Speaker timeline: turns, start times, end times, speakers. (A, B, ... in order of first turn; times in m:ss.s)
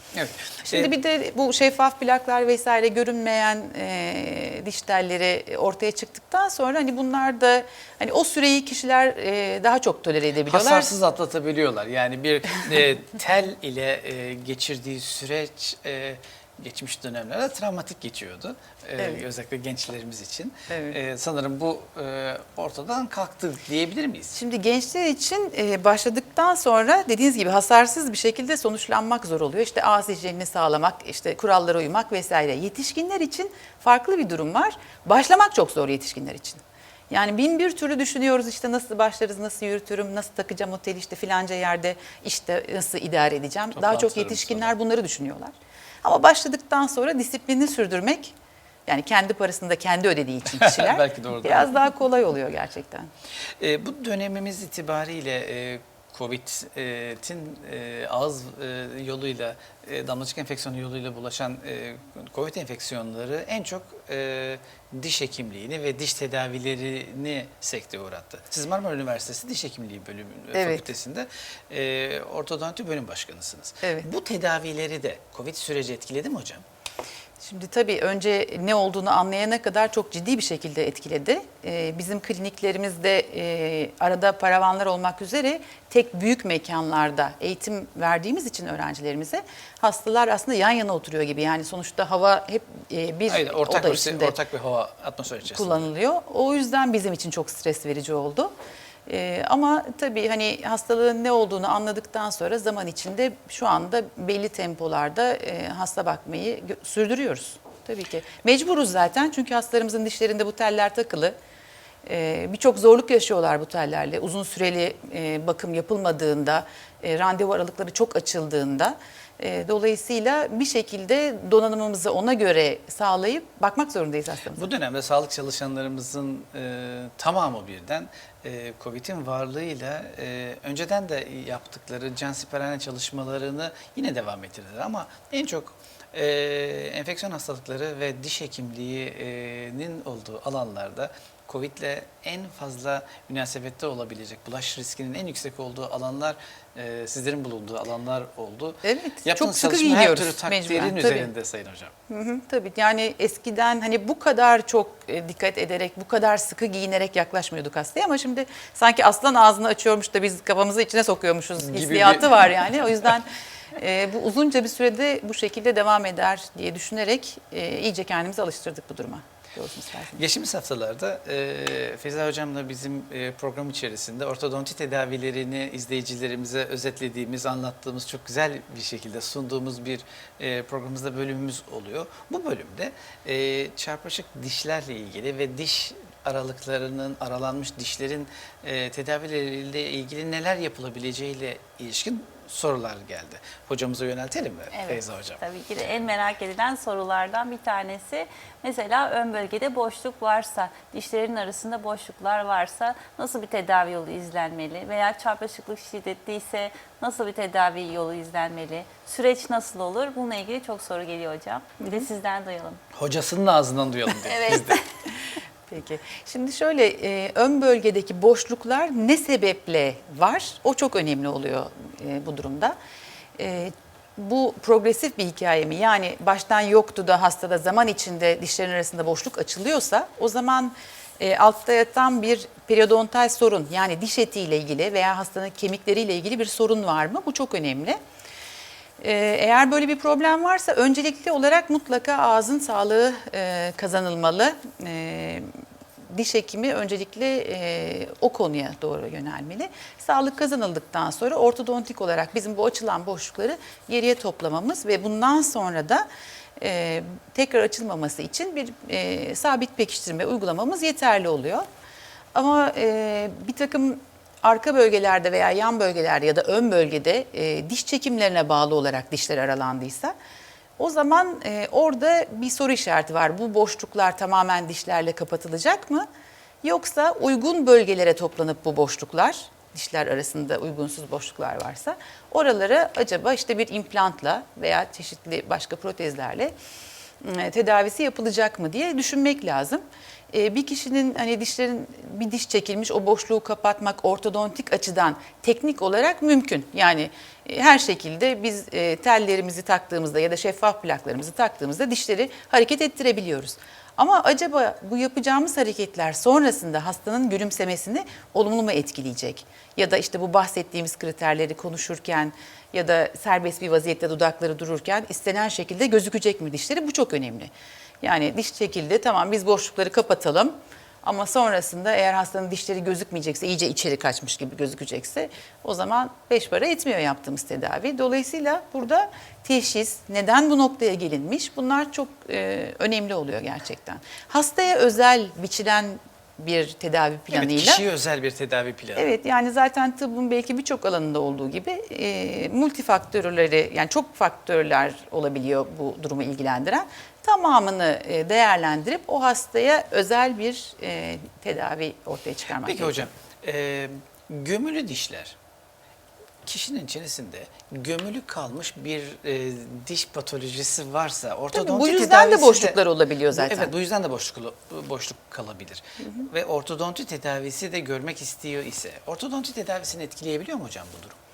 0:00.1-0:00.9 A
0:00.7-0:10.9 B
0:10.5-0:24.4 A
0:19.0-0:19.2 B
0:20.7-0:21.0 B
0:24.3-0:45.5 B
0:43.8-0:44.7 A
0:46.0-0:48.4 B
0:48.9-0:53.1 B
0:50.5-0:51.7 A
0:53.6-1:16.6 A
1:10.5-1:10.9 B
1:13.8-1:14.1 B
1:17.4-1:34.4 B
1:33.3-1:35.9 A
1:35.5-1:38.5 B
1:39.1-1:51.3 B
1:52.1-2:04.7 B
2:04.6-2:31.9 A
2:28.8-2:31.3 B
2:32.1-2:50.2 B
2:41.6-2:42.5 A
2:50.2-3:15.4 A
3:14.7-3:32.8 C
3:32.9-3:34.8 A
3:34.2-3:34.8 C
3:35.7-3:42.8 B
3:43.4-3:58.0 B
3:59.0-4:05.5 B
4:06.1-4:16.0 B
4:16.6-4:21.6 B
4:22.3-4:30.1 B
4:30.8-4:36.1 B
4:36.6-4:46.5 B
4:47.2-5:37.8 B
5:37.3-5:39.1 A
5:39.0-5:53.1 B
5:52.6-5:55.4 A
5:56.4-6:11.2 A
6:01.5-6:03.7 B